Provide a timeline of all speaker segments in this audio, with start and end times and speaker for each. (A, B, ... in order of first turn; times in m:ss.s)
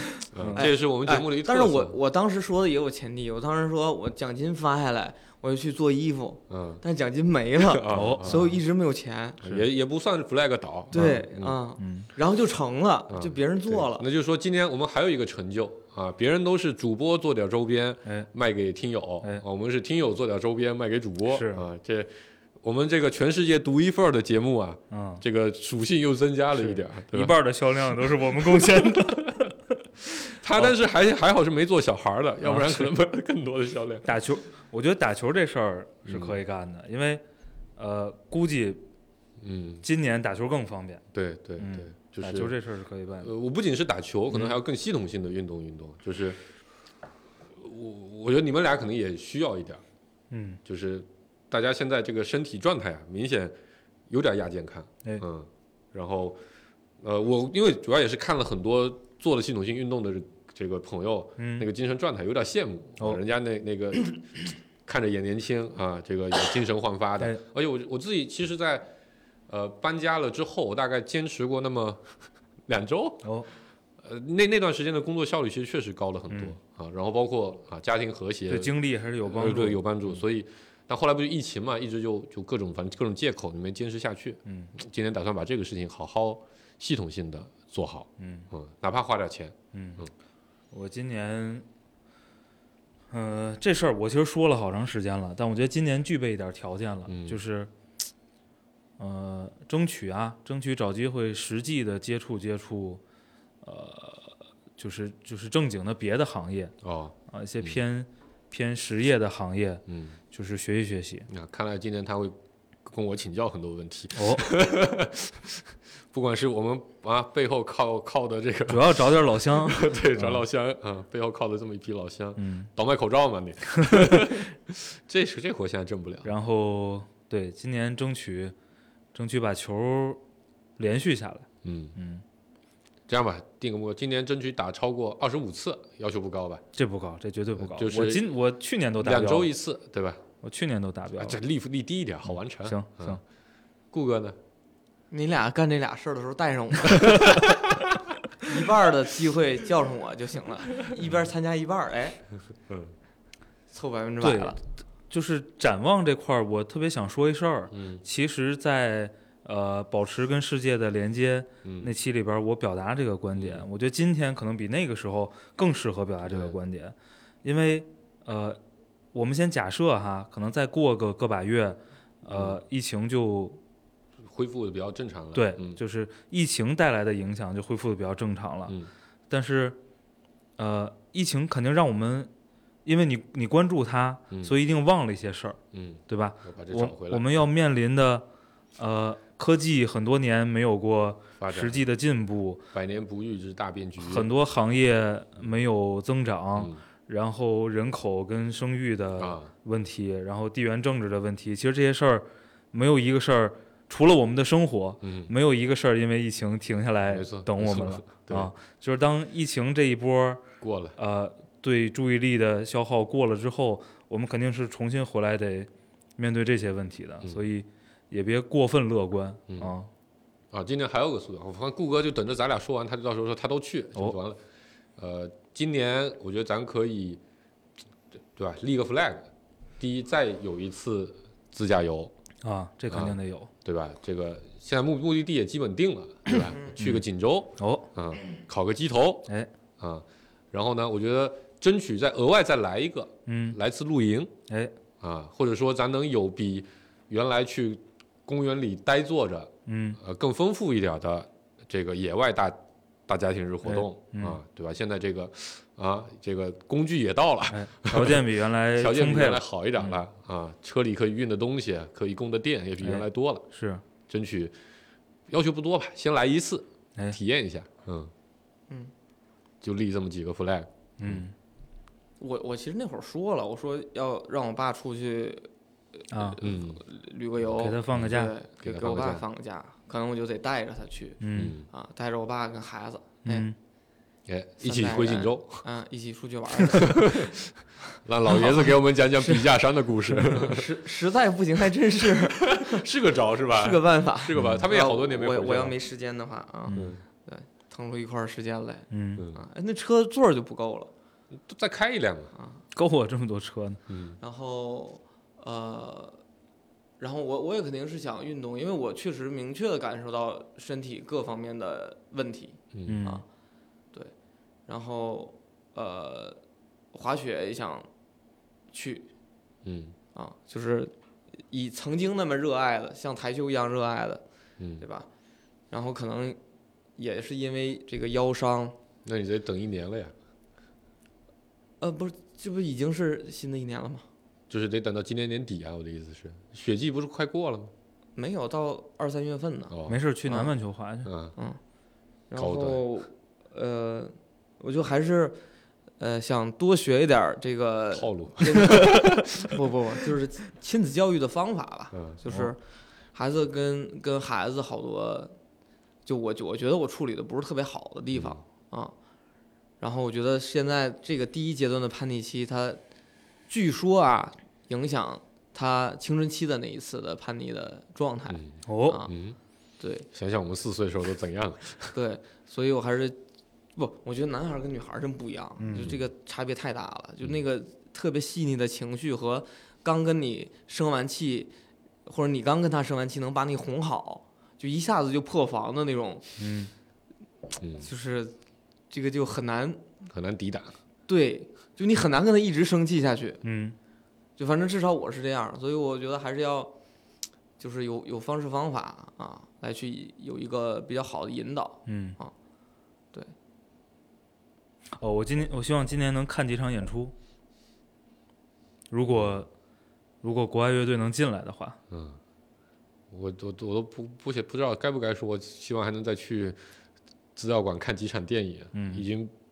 0:00.3-0:01.9 A
0:00.4-0:00.7 B
0:00.6-0:09.4 C
0:06.5-0:06.8 A
0:07.6-0:08.5 A
0:07.9-0:08.6 B
0:09.4-0:11.6 A
0:10.9-0:14.0 C
0:11.8-0:12.1 B
0:13.1-0:27.4 A
0:21.3-0:21.6 B
0:24.9-0:25.2 B
0:26.6-0:30.7 B
0:28.4-0:29.2 A
0:30.3-0:34.1 A
0:32.4-0:32.9 B
0:34.0-0:37.2 B
0:36.1-0:36.4 A
0:37.8-0:38.8 B
0:39.4-0:39.8 A
0:39.8-0:41.0 B
0:41.1-0:42.5 A
0:41.6-0:43.3 B
0:43.2-0:46.4 A
0:44.3-0:44.6 B
0:47.5-0:49.8 A
0:50.3-0:50.6 B
0:50.6-0:53.6 A
0:54.1-0:56.4 A
0:57.0-1:08.9 A
1:01.4-1:01.7 B
1:09.5-1:12.1 A
1:12.7-1:13.3 A
1:14.0-1:18.7 A
1:16.3-1:16.6 B
1:18.5-1:20.0 B
1:19.2-1:30.1 A
1:24.5-1:24.7 B
1:28.2-1:28.5 B
1:29.7-1:30.0 B
1:30.7-1:31.6 B
1:33.1-1:37.7 B
1:37.1-1:37.4 A
1:39.0-1:43.0 B
1:43.6-1:46.7 B
1:46.8-1:47.8 A
1:47.3-1:51.3 B
1:49.9-1:50.2 A
1:51.3-2:06.3 A
1:54.2-1:54.5 B
1:58.7-2:00.4 B
2:02.4-2:02.7 B
2:03.8-2:04.3 B
2:06.2-2:08.5 B
2:09.1-2:10.2 B
2:10.8-2:12.2 B
2:11.6-2:12.0 A
2:13.1-2:16.6 A
2:16.7-2:19.5 B
2:17.6-2:18.2 A
2:19.0-2:20.2 A
2:20.4-2:21.4 B
2:21.2-2:23.2 A
2:22.6-2:23.2 B
2:23.9-2:24.4 A
2:25.1-2:27.4 C
2:28.4-2:32.2 C
2:32.7-2:32.9 A
2:33.7-2:34.6 C
2:34.2-2:48.6 B
2:37.7-2:38.0 A
2:41.6-2:41.9 A
2:43.3-2:43.6 A
2:46.2-2:46.6 A
2:49.1-2:53.6 B
2:52.3-2:52.6 A
2:54.2-2:55.8 A
2:55.3-2:58.8 B
2:59.3-2:59.8 B
3:00.6-3:02.3 B
3:02.8-3:08.3 B
3:05.7-3:07.3 A
3:08.8-3:12.6 B
3:11.4-3:11.8 A
3:12.7-3:14.3 A
3:14.0-3:30.4 B
3:16.6-3:16.8 A
3:19.2-3:19.5 A
3:25.0-3:25.3 A
3:27.0-3:28.5 A
3:30.6-3:31.0 A
3:31.0-3:39.9 B
3:40.5-3:44.4 A
3:45.0-3:47.2 A
3:48.3-3:52.1 A
3:52.4-3:53.5 B
3:52.9-4:04.3 A
3:56.8-3:57.0 B
3:57.6-3:57.9 B
4:03.3-4:03.6 B
4:04.5-4:04.7 B
4:05.0-4:18.2 A
4:09.7-4:10.0 B
4:13.6-4:14.4 B
4:17.5-4:20.0 B
4:18.7-4:23.4 A
4:22.8-4:23.8 B
4:24.1-4:24.6 A
4:25.3-4:28.1 A
4:29.6-4:31.2 A
4:31.0-4:31.3 B
4:32.2-4:35.5 C
4:36.1-4:36.4 B
4:36.1-4:43.4 C
4:36.4-4:36.8 A
4:37.5-4:38.3 B
4:37.9-4:39.2 A
4:41.2-4:41.6 B
4:41.4-4:41.7 A
4:43.2-4:43.6 B
4:44.3-4:45.6 A
4:44.6-4:47.3 C
4:46.8-4:50.7 A
4:50.2-4:52.8 C
4:52.3-4:55.8 A
4:53.5-5:00.9 C
4:54.4-4:54.6 B
4:56.7-4:56.9 B
4:56.7-4:57.0 A
4:58.9-4:59.2 B
5:01.3-5:02.3 A
5:02.4-5:02.6 C
5:02.7-5:03.8 B
5:03.9-5:04.2 A
5:04.2-5:06.2 C
5:07.0-5:13.2 C
5:12.7-5:13.0 A
5:12.8-5:13.2 B
5:14.7-5:16.4 C
5:16.9-5:17.9 C
5:18.7-5:19.1 C
5:19.6-5:20.0 A
5:20.1-5:20.9 C
5:21.5-5:24.2 C
5:24.6-5:24.8 A
5:24.8-5:25.1 C
5:25.7-5:26.4 C
5:27.0-5:28.8 C
5:29.0-5:30.1 A
5:31.8-5:34.0 C
5:34.5-5:37.7 A
5:38.2-5:39.7 C
5:39.7-5:40.0 A
5:39.9-5:41.1 B
5:40.2-5:40.5 C
5:41.0-5:41.4 A
5:42.3-5:45.4 C
5:42.4-5:42.8 A
5:46.0-5:52.6 C
5:47.9-5:49.6 A
5:51.9-5:52.2 A
5:53.1-5:55.4 C
5:56.0-5:58.9 C
5:58.1-5:58.4 A
5:59.8-6:02.8 C
6:03.5-6:09.1 C
6:08.3-6:09.4 A
6:08.7-6:09.0 B
6:09.8-6:10.1 C
6:10.1-6:11.9 A
6:11.9-6:13.2 C
6:13.8-6:21.5 C
6:15.6-6:15.9 B
6:15.7-6:16.0 A
6:22.0-6:26.2 C
6:26.4-6:26.7 B
6:27.6-6:27.9 A
6:27.8-6:28.4 C
6:28.9-6:29.8 C
6:30.0-6:30.8 A
6:31.1-6:33.4 C
6:33.4-6:33.8 B
6:34.4-6:36.7 C
6:37.6-6:42.3 C
6:41.9-6:42.2 B
6:45.0-6:47.1 B
6:48.9-6:49.5 B
6:50.2-6:51.8 B
6:51.9-6:52.2 A
6:53.1-6:56.6 A
6:57.4-6:59.3 A
6:58.7-6:59.0 B